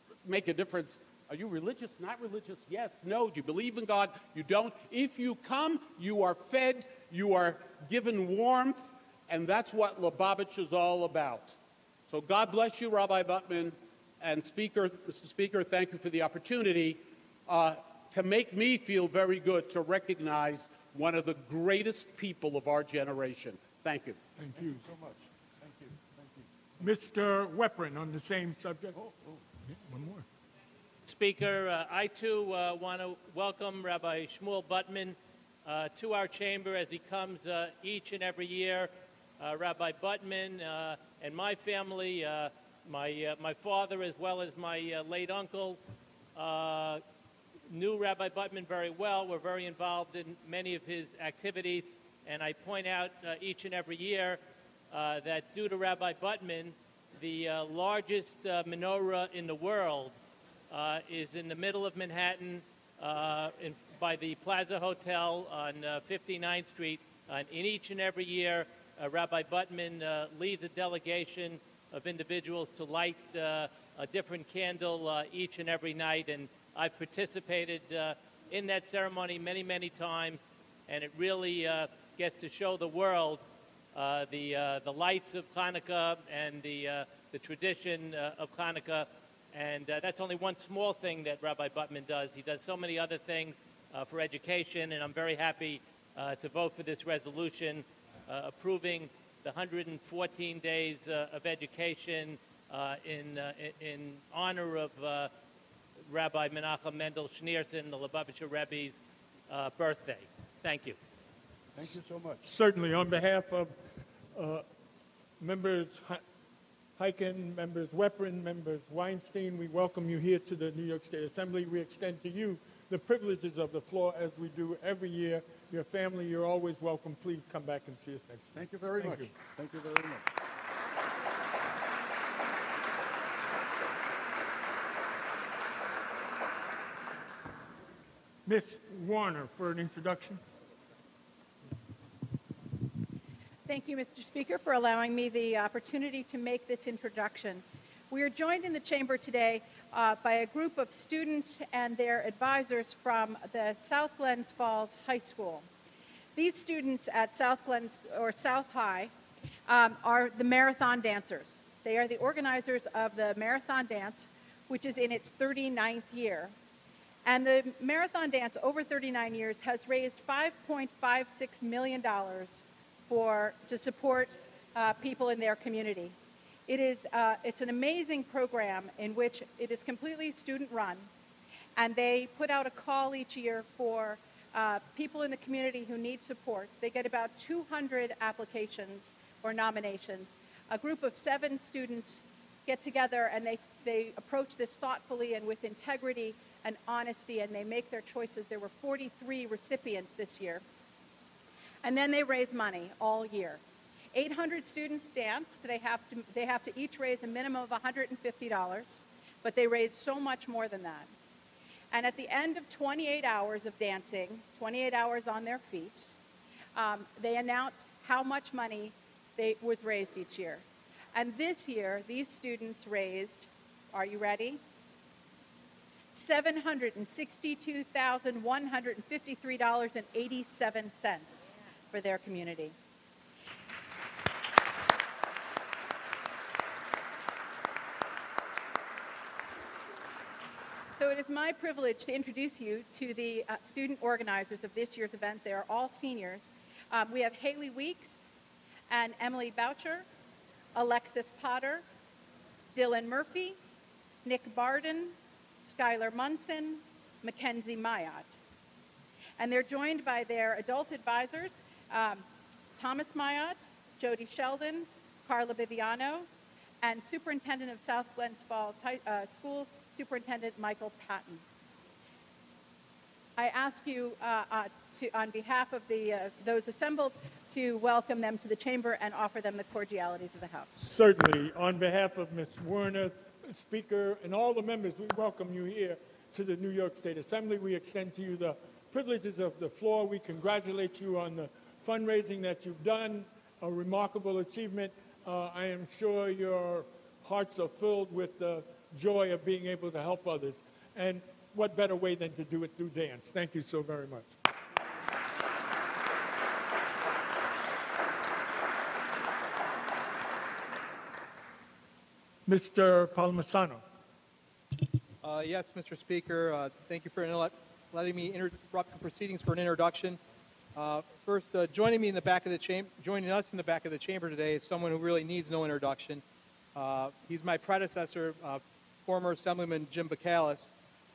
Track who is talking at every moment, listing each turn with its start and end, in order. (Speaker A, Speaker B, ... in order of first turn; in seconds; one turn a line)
Speaker A: 0.2-24.2
Speaker B: 24.4-24.8
Speaker C: 24.5-26.5
Speaker B: 26.8-29.0
Speaker C: 28.9-29.4
Speaker B: 29.8-30.2
Speaker D: 31.1-45.8
Speaker D: 46.4-47.0
Speaker D: 47.7-54.4
Speaker D: 54.9-60.2
Speaker D: 60.7-83.4
Speaker D: 84.0-105.3
Speaker D: 106.1-111.0
Speaker C: 111.8-112.5
Speaker B: 112.5-113.7
Speaker B: 114.3-114.6
Speaker B: 115.4-116.2
Speaker B: 117.0-129.3
Speaker C: 128.6-130.3
Speaker B: 138.5-140.4
Speaker E: 143.7-155.7
Speaker E: 156.4-159.1
Speaker E: 159.7-166.5
Speaker E: 167.2-176.2
Speaker E: 176.7-181.1
Speaker E: 181.8-200.6
Speaker E: 201.8-203.6
Speaker E: 204.1-211.1
Speaker E: 211.9-216.1
Speaker E: 216.8-224.6
Speaker E: 226.1-232.8
Speaker E: 240.9-248.2
Speaker E: 248.9-250.1
Speaker E: 250.8-251.8
Speaker E: 252.8-253.6
Speaker E: 254.2-258.4
Speaker E: 259.4-262.2
Speaker E: 262.8-266.3
Speaker E: 266.8-271.4
Speaker E: 273.4-280.8
Speaker B: 280.8-304.4
Speaker B: 312.5-313.8
Speaker F: 315.2-320.2
Speaker F: 320.8-326.2
Speaker F: 326.8-330.8